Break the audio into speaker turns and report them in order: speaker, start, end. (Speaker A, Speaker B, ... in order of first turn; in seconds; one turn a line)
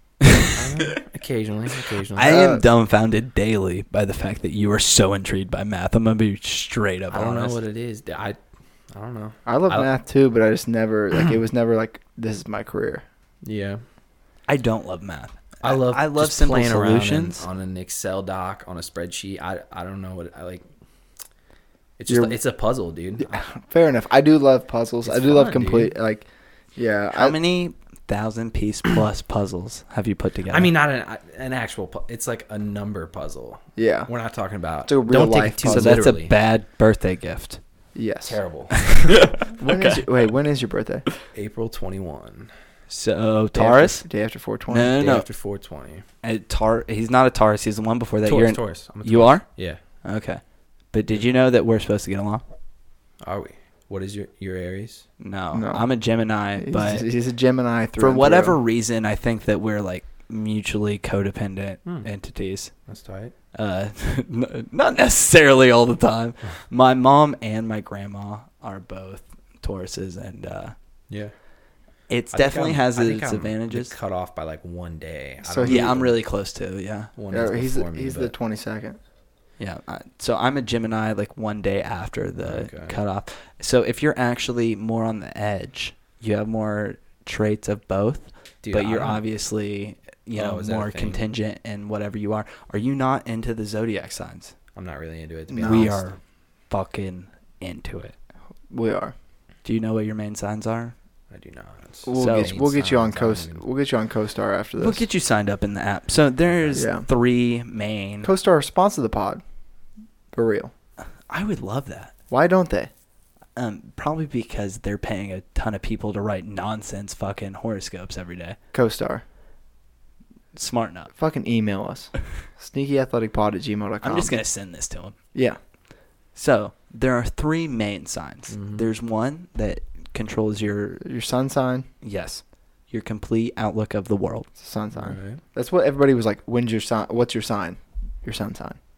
Speaker A: 0.5-2.4
Speaker B: 2.1-7.6
Speaker C: 2.2-2.6
Speaker A: 7.1-8.4
Speaker A: 8.9-9.9
Speaker C: 9.5-13.0
Speaker A: 13.4-13.8
Speaker B: 14.5-17.5
Speaker A: 15.6-20.6
Speaker A: 22.0-23.4
Speaker C: 22.1-22.4
Speaker C: 23.2-27.4
Speaker A: 25.0-25.9
Speaker B: 27.1-30.7
Speaker A: 30.5-36.3
Speaker C: 33.8-34.1
Speaker C: 34.9-36.0
Speaker B: 35.7-37.6
Speaker C: 38.0-38.4
Speaker A: 38.2-39.1
Speaker B: 38.8-40.0
Speaker C: 39.6-41.1
Speaker A: 41.3-42.5
Speaker B: 42.9-44.0
Speaker C: 43.5-44.9
Speaker B: 44.7-45.3
Speaker A: 45.0-46.0
Speaker B: 46.2-49.5
Speaker A: 48.3-49.8
Speaker B: 50.0-50.4
Speaker B: 50.9-52.4
Speaker A: 53.2-55.1
Speaker B: 55.2-57.1
Speaker C: 55.5-55.9
Speaker C: 56.6-58.6
Speaker B: 58.0-62.7
Speaker A: 62.9-63.3
Speaker B: 63.5-70.8
Speaker B: 72.1-74.0
Speaker A: 72.3-76.2
Speaker C: 75.4-75.9
Speaker B: 75.7-77.1
Speaker A: 77.2-78.3
Speaker C: 77.3-79.0
Speaker B: 79.6-94.5
Speaker A: 82.4-83.0
Speaker A: 88.6-89.2
Speaker A: 90.3-91.2
Speaker A: 94.8-96.0
Speaker C: 95.5-95.9
Speaker B: 95.6-98.2
Speaker C: 98.7-99.2
Speaker B: 99.6-100.9
Speaker A: 101.3-103.6
Speaker C: 102.0-105.0
Speaker B: 102.2-102.5
Speaker B: 104.8-108.3
Speaker A: 106.5-106.9
Speaker C: 106.7-107.1
Speaker C: 108.2-109.4
Speaker C: 110.3-110.7
Speaker B: 111.3-112.1
Speaker C: 112.3-112.9
Speaker B: 113.6-118.6
Speaker C: 118.7-119.2
Speaker B: 120.5-121.1
Speaker C: 121.2-124.3
Speaker B: 124.0-125.2
Speaker C: 125.3-125.6
Speaker B: 126.3-131.0
Speaker A: 128.5-128.8
Speaker C: 131.0-131.9
Speaker B: 132.0-134.5
Speaker C: 134.6-138.8
Speaker A: 134.9-135.4